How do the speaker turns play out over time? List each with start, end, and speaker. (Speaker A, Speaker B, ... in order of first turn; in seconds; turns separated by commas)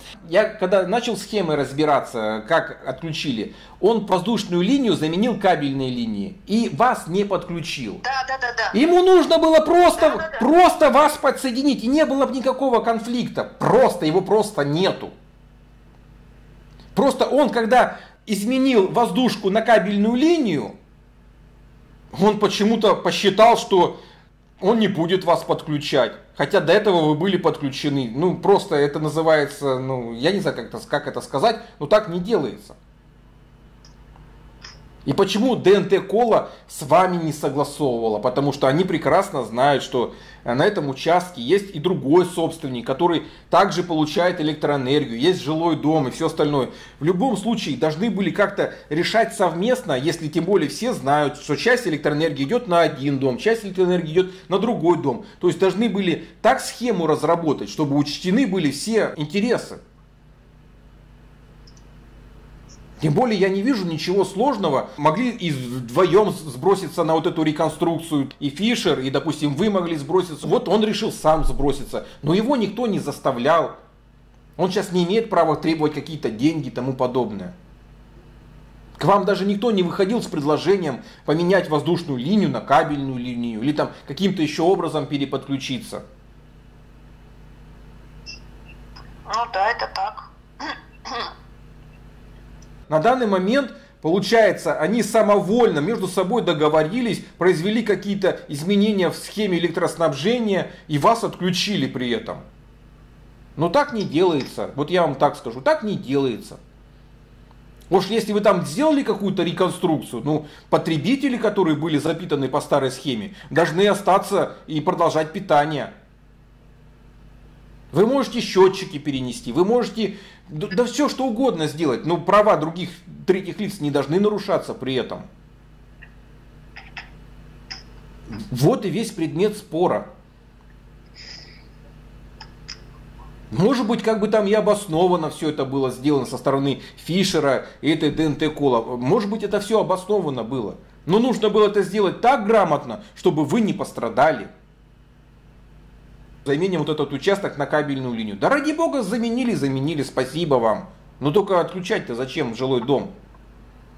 Speaker A: 0.2-8.0, Speaker B: 8.0-8.8, Speaker A: 8.7-15.1, Speaker B: 10.0-10.5, Speaker A: 16.9-20.8, Speaker A: 22.1-24.0, Speaker A: 24.6-32.8, Speaker A: 35.0-59.8, Speaker A: 63.0-73.8, Speaker A: 74.6-77.5, Speaker A: 79.0-86.0, Speaker B: 89.3-91.3, Speaker A: 92.9-102.4, Speaker A: 103.6-106.6, Speaker A: 107.9-115.9, Speaker A: 117.9-125.3, Speaker A: 128.3-130.1, Speaker A: 133.5-144.5, Speaker A: 146.4-153.1